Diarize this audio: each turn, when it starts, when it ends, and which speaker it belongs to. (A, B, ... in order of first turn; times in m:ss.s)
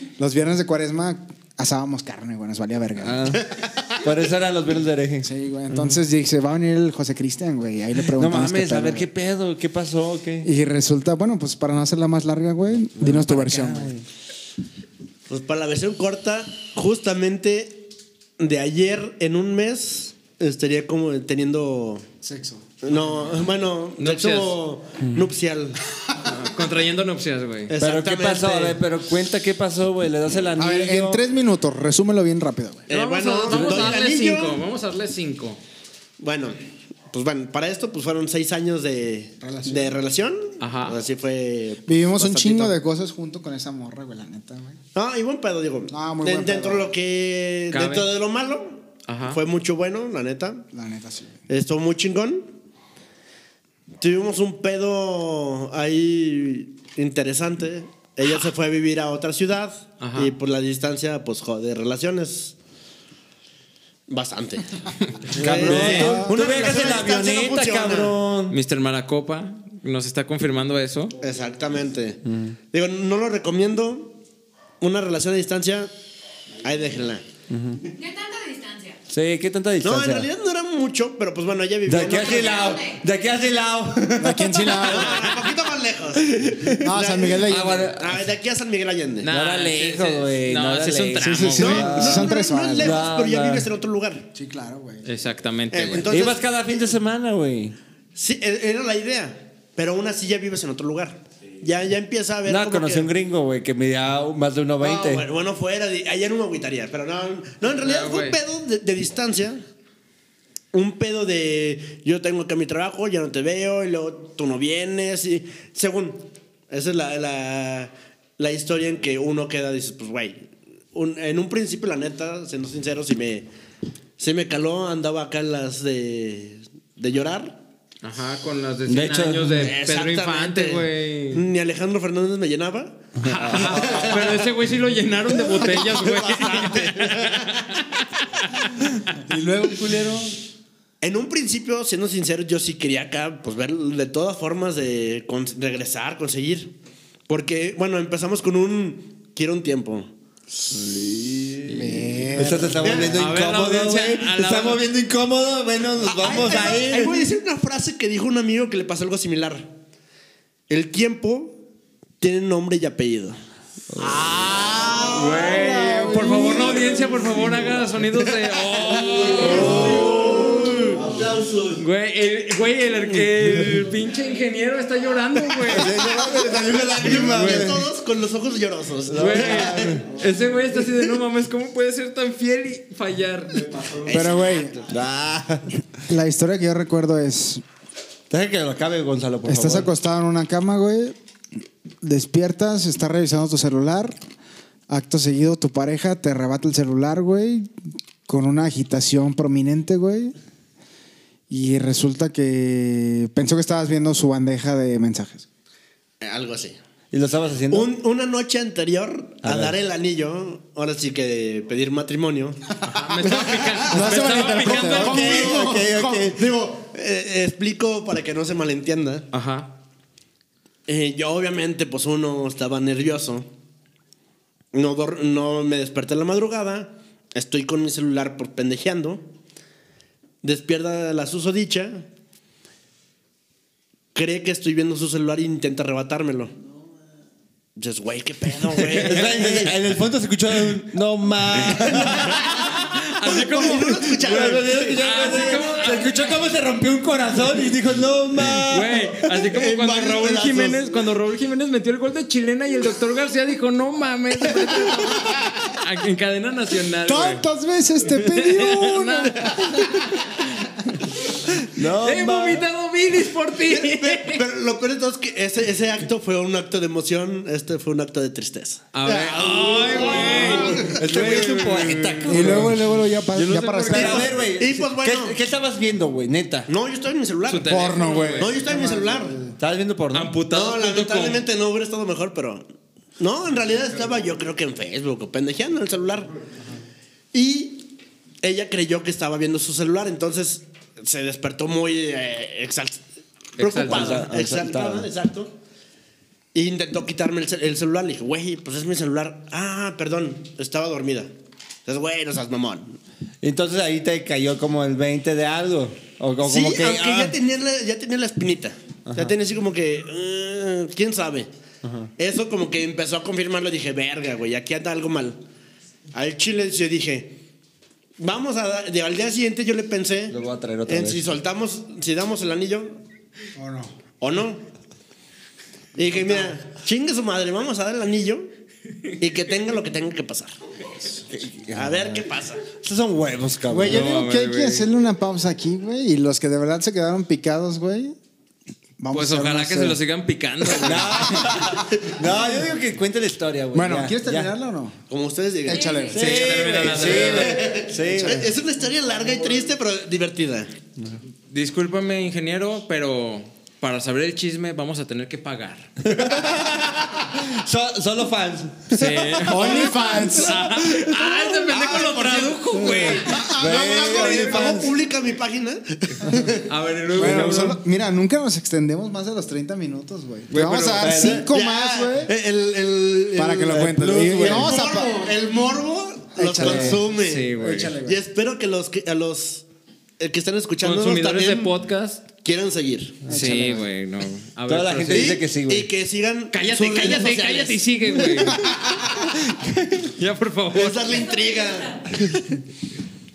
0:00.2-0:03.4 A
0:03.0-0:06.0 B
0:05.2-0:09.1 A
0:08.1-0:10.5 B
0:10.4-0:13.9 A
0:12.9-0:14.0 B
0:15.3-0:22.0 C
0:22.2-0:23.3 A
0:22.8-0:25.8 C
0:24.0-0:24.5 D
0:26.2-0:27.7 D
0:27.7-0:28.8 C
0:27.8-0:31.2 B
0:30.6-0:32.9 A
0:32.9-0:34.6 C
0:32.9-0:35.6 D
0:36.2-0:36.6 C
0:37.1-0:42.8 C
0:39.4-0:40.0 A
0:40.6-0:41.0 D
0:41.9-0:44.8 A
0:44.9-0:50.6 C
0:45.9-0:46.9 A
0:47.7-0:48.1 D
0:49.1-0:49.4 D
0:50.7-0:51.3 A
0:51.5-0:52.5 C
0:54.0-1:02.5 C
1:00.0-1:00.3 D
1:04.1-1:08.2 C
1:05.3-1:08.6 B
1:05.6-1:06.2 D
1:05.7-1:06.6 A
1:08.5-1:11.1 D
1:11.2-1:14.1 C
1:12.2-1:12.6 B
1:14.8-1:15.9 C
1:16.6-1:17.2 C
1:17.5-1:17.8 B
1:17.9-1:19.0 E
1:19.1-1:20.3 B
1:19.8-1:22.6 C
1:21.9-1:25.1 B
1:22.1-1:23.0 E
1:24.2-1:25.3 A
1:24.8-1:29.3 C
1:26.3-1:26.7 B
1:26.6-1:27.9 A
1:27.3-1:28.2 B
1:29.2-1:31.9 D
1:29.2-1:33.7 B
1:31.2-1:33.0 A
1:31.6-1:34.3 C
1:34.3-1:35.1 A
1:35.0-1:36.0 D
1:35.7-1:36.4 C
1:36.0-1:37.8 B
1:38.2-1:43.1 C
1:42.4-1:45.2 B
1:44.8-1:49.6 C
1:47.7-1:48.4 D
1:50.7-2:03.5 C
2:04.2-2:07.6 C
2:08.0-2:11.4 D
2:08.9-2:09.7 B
2:09.5-2:14.4 C
2:13.2-2:14.4 B
2:13.2-2:19.1 D
2:15.3-2:17.8 C
2:19.1-2:20.4 A
2:21.0-2:26.7 C
2:27.3-2:30.1 C
2:30.7-2:37.2 B
2:31.7-2:33.1 A
2:32.8-2:33.2 C
2:33.1-2:34.8 D
2:36.1-2:39.7 C
2:40.7-2:41.6 C
2:42.2-2:43.4 C
2:43.9-2:45.0 B
2:44.0-2:47.6 A
2:44.6-2:45.4 C
2:45.1-2:50.9 D
2:46.3-2:46.8 C
2:48.9-2:51.2 C
2:49.3-2:51.8 B
2:51.8-2:56.0 D
2:55.6-2:57.8 B
2:56.8-3:00.0 C
2:57.3-2:57.8 D
2:59.1-3:00.0 B
2:59.2-3:03.9 D
3:04.0-3:04.8 C
3:04.0-3:04.8 A
3:04.9-3:05.7 B
3:06.1-3:07.6 A
3:08.3-3:09.9 B
3:09.4-3:11.1 A
3:12.0-3:14.2 A
3:14.9-3:17.7 A
3:18.3-3:20.3 A
3:21.5-3:25.4 A
3:26.2-3:26.8 C
3:27.1-3:27.9 B
3:27.7-3:34.1 C
3:29.4-3:29.8 B
3:32.8-3:35.4 D
3:33.6-3:36.3 A
3:34.1-3:36.5 B
3:35.1-3:39.3 C
3:39.3-3:39.7 D
3:40.9-3:43.5 C
3:44.7-3:49.2 C
3:50.4-3:52.0 C
3:54.1-3:56.5 C
3:57.8-3:59.8 C
3:58.7-4:02.8 B
4:01.6-4:04.1 D
4:03.2-4:05.3 C
4:03.9-4:09.0 B
4:05.0-4:06.4 D
4:08.7-4:17.4 D
4:09.3-4:10.9 C
4:17.0-4:20.1 A
4:18.1-4:21.0 D
4:21.7-4:22.6 B
4:21.8-4:24.4 D
4:23.7-4:31.0 C
4:28.9-4:32.7 D
4:29.0-4:30.8 A
4:29.8-4:36.7 B
4:32.3-4:34.4 A
4:33.4-4:34.0 D
4:33.9-4:35.4 C
4:36.7-4:39.3 C
4:37.5-4:38.5 D
4:37.6-4:39.5 A
4:39.6-4:40.3 B
4:40.1-4:41.4 D
4:40.5-4:42.6 C
4:43.2-4:46.3 C
4:47.3-4:47.9 C
4:48.4-4:53.0 C
4:53.6-4:54.2 D
4:53.6-4:55.5 C
4:53.8-4:55.1 B
4:56.5-5:01.3 C
5:01.8-5:03.0 C
5:03.4-5:07.4 B
5:06.4-5:11.5 C
5:09.1-5:09.3 B
5:11.8-5:12.1 B
5:12.2-5:15.4 C
5:16.1-5:17.3 C
5:18.2-5:23.0 C
5:20.3-5:21.3 B
5:23.6-5:23.9 A
5:24.2-5:24.6 C
5:25.9-5:28.5 C
5:29.2-5:30.5 C
5:31.3-5:32.3 B
5:31.7-5:32.6 C
5:32.8-5:34.1 B
5:33.7-5:38.1 A
5:33.9-5:34.9 D
5:39.0-5:40.0 A
5:39.1-5:41.7 D
5:40.7-5:44.5 B
5:40.9-5:41.7 A
5:43.7-5:44.9 A
5:45.1-5:50.7 C
5:45.7-5:46.2 A
5:45.7-5:46.2 E
5:46.1-5:48.5 B
5:46.1-5:47.6 D
5:48.1-5:48.4 A
5:51.5-5:55.9 D
5:56.0-6:01.9 B
5:58.9-6:03.5 D
5:59.5-6:00.6 A
6:01.7-6:02.5 C
6:02.7-6:04.9 B
6:02.9-6:04.9 A
6:03.7-6:06.6 C
6:06.6-6:07.8 D
6:07.1-6:12.3 A
6:07.2-6:07.6 B
6:10.5-6:11.5 B
6:11.0-6:17.5 C
6:13.3-6:15.3 A
6:13.7-6:14.9 B
6:16.3-6:18.2 A
6:16.6-6:17.0 B
6:17.1-6:18.0 D
6:18.0-6:19.6 C
6:20.2-6:21.7 C
6:20.8-6:22.2 D
6:22.4-6:23.2 C
6:23.3-6:23.6 B
6:23.3-6:23.9 A
6:23.3-6:25.4 D
6:24.7-6:25.9 B
6:25.1-6:29.0 C
6:26.5-6:28.6 D
6:29.5-6:30.0 B
6:30.0-6:31.2 D
6:30.7-6:32.5 C
6:31.0-6:32.0 E